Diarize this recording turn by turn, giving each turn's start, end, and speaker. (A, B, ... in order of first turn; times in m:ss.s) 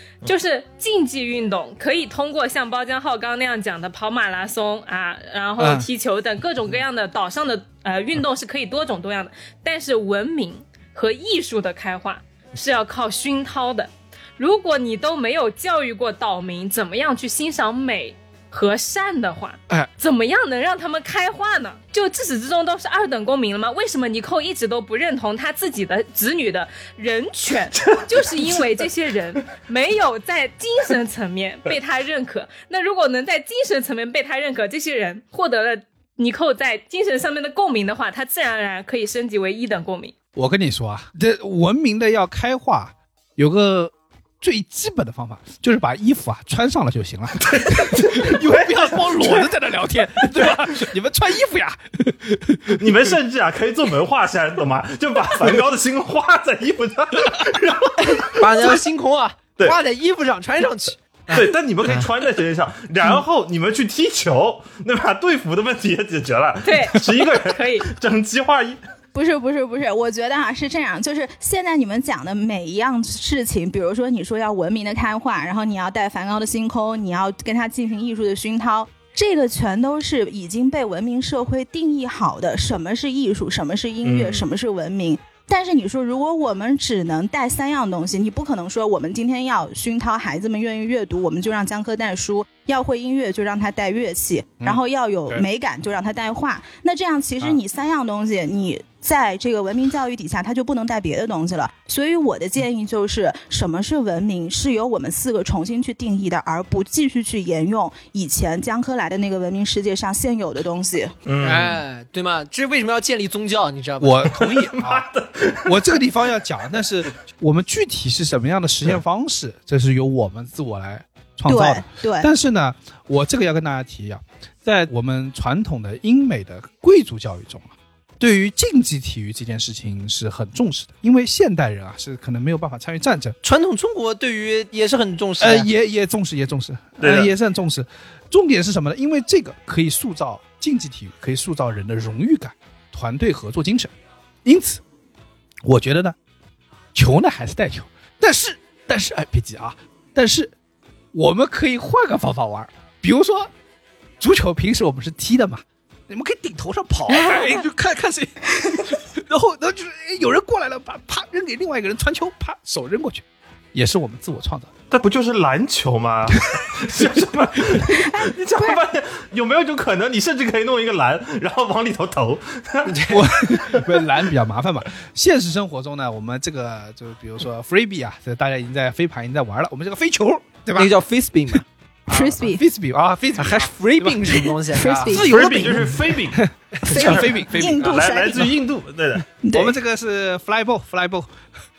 0:00.2-0:40.1 A
0:05.6-0:05.9 B
0:27.8-0:28.6 C
0:40.4-0:52.9 B
0:47.5-0:48.3 C
0:52.8-0:58.7 C
0:58.4-1:02.1 D
1:01.3-1:08.8 C
1:06.6-1:07.9 A
1:09.1-1:51.1 E
1:24.0-1:24.4 C
1:34.6-1:35.5 B
1:51.3-1:51.8 C
1:51.4-1:54.3 D
1:54.0-1:55.1 B
1:54.4-1:55.7 C
1:55.6-2:13.4 B
2:01.5-2:02.3 E
2:13.4-2:15.7 D
2:15.4-2:23.9 B
2:17.0-2:17.3 C
2:24.4-2:24.8 B
2:25.6-2:26.2 B
2:26.9-2:30.5 B
2:31.1-2:33.5 B
2:34.2-2:44.7 B
2:44.9-2:53.9 C
2:46.8-2:47.8 B
2:48.0-2:48.8 E
2:52.9-2:53.2 D
2:53.1-3:01.0 B
3:00.8-3:01.6 D
3:01.5-3:04.5 B
3:02.1-3:02.6 E
3:03.4-3:06.1 D
3:04.7-3:05.3 E
3:05.1-3:06.5 C
3:06.3-3:07.8 B
3:06.9-3:08.6 E
3:06.9-3:07.3 D
3:07.6-3:09.3 C
3:09.4-3:09.7 E
3:09.5-3:11.3 B